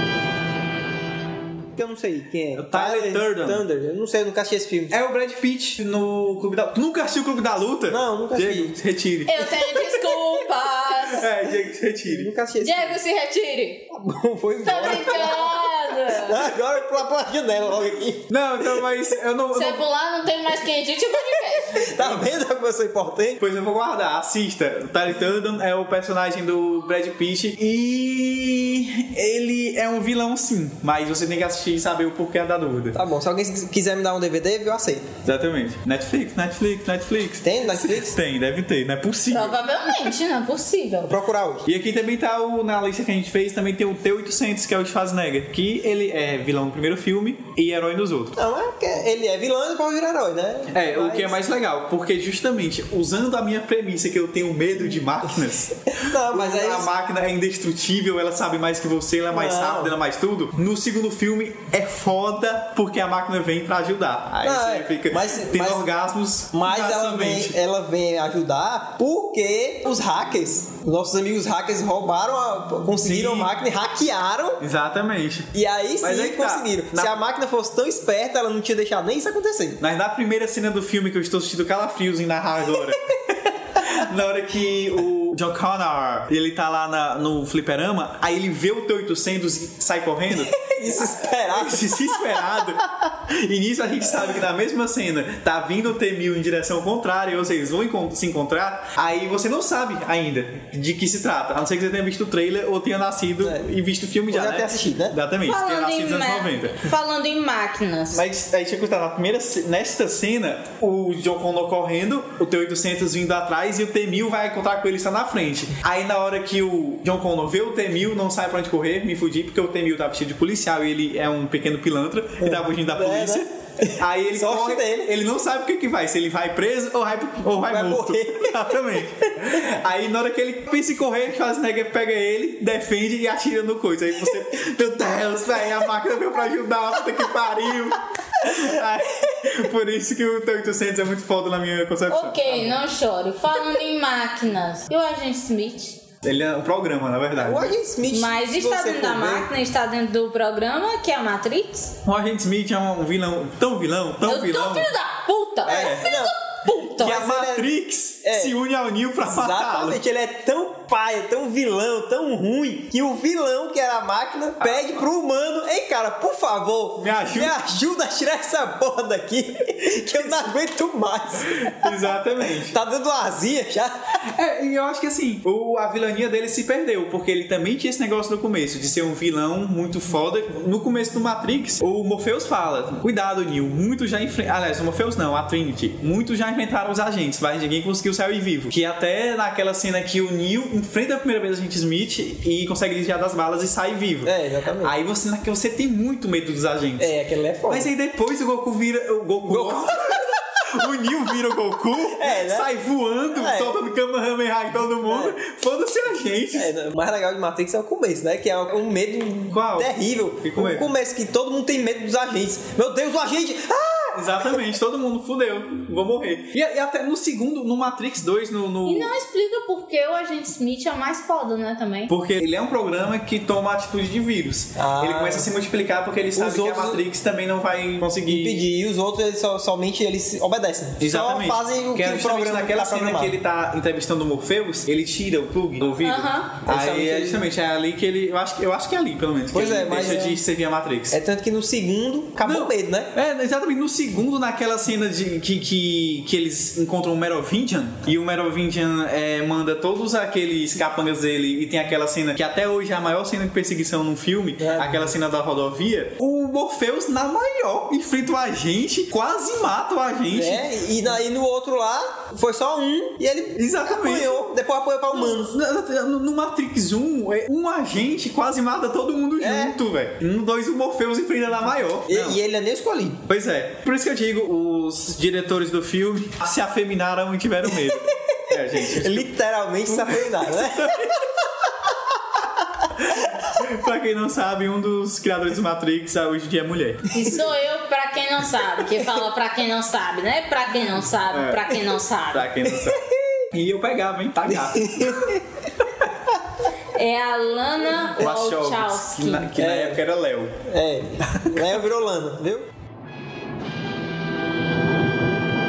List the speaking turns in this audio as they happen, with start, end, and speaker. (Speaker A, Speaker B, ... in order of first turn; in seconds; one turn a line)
Speaker A: 1.7-4.9
Speaker B: 2.5-3.6
Speaker B: 4.9-9.8
Speaker A: 7.9-8.7
Speaker C: 9.2-11.3
Speaker B: 10.9-12.3
Speaker A: 12.0-12.9
Speaker C: 12.6-13.8
Speaker A: 13.9-18.8
Speaker C: 14.6-16.5
Speaker B: 18.3-19.8
Speaker C: 19.5-22.0
Speaker A: 21.7-23.4
Speaker B: 22.0-22.3
Speaker B: 23.4-33.0
Speaker A: 32.9-35.1
Speaker B: 35.2-39.6
Speaker A: 37.4-38.2
Speaker C: 39.3-41.2
Speaker A: 41.1-41.7
Speaker B: 41.6-48.4
Speaker A: 48.4-51.4
Speaker B: 50.7-67.5
Speaker A: 55.9-56.9
Speaker A: 59.3-60.0
Speaker A: 64.4-65.8
Speaker A: 66.5-74.6
Speaker B: 73.0-73.5
Speaker B: 74.6-75.5
Speaker A: 75.5-79.8
Speaker B: 76.0-77.2
Speaker B: 79.8-106.9
Speaker A: 90.3-92.5
Speaker A: 103.4-103.7
Speaker A: 104.3-105.2
Speaker C: 105.4-108.2
Speaker B: 108.1-142.4
Speaker A: 122.4-125.1
Speaker A: 127.7-129.6
Speaker C: 142.1-146.0
Speaker A: 142.5-142.8
Speaker B: 146.2-147.7
Speaker A: 147.4-149.5
Speaker C: 148.1-151.9
Speaker B: 152.0-154.9
Speaker C: 154.2-157.3
Speaker B: 155.7-156.1
Speaker A: 155.7-156.3
Speaker A: 157.0-157.7
Speaker B: 157.0-160.0
Speaker A: 158.2-158.6
Speaker A: 159.2-174.1
Speaker B: 164.6-164.9
Speaker B: 167.0-167.6
Speaker B: 171.4-172.7
Speaker B: 174.2-197.1
Speaker A: 194.2-194.9
Speaker A: 197.0-197.9
Speaker B: 197.7-206.7
Speaker A: 199.4-200.4
Speaker A: 202.1-202.7
Speaker A: 203.3-203.8
Speaker A: 205.0-205.4
Speaker A: 206.5-214.6
Speaker B: 209.5-210.9
Speaker B: 214.1-219.1
Speaker C: 218.8-222.1
Speaker B: 222.1-228.6
Speaker A: 224.8-225.5
Speaker A: 226.3-227.0
Speaker A: 228.3-233.3
Speaker B: 231.0-241.2
Speaker C: 236.0-236.6
Speaker A: 236.7-237.5
Speaker A: 239.5-240.4
Speaker A: 241.1-243.1
Speaker B: 242.4-260.6
Speaker A: 254.6-255.1
Speaker A: 260.3-265.6
Speaker B: 263.6-264.4
Speaker B: 265.1-272.4
Speaker A: 269.4-269.8
Speaker A: 272.1-273.2
Speaker B: 273.3-279.3
Speaker A: 278.5-281.0
Speaker B: 279.9-281.4
Speaker B: 282.9-287.2
Speaker C: 287.1-292.5
Speaker B: 291.3-295.4
Speaker A: 292.7-293.4
Speaker A: 294.4-295.4
Speaker C: 296.9-299.5
Speaker B: 298.1-300.6
Speaker A: 299.6-300.0
Speaker A: 300.6-302.7
Speaker B: 301.4-301.7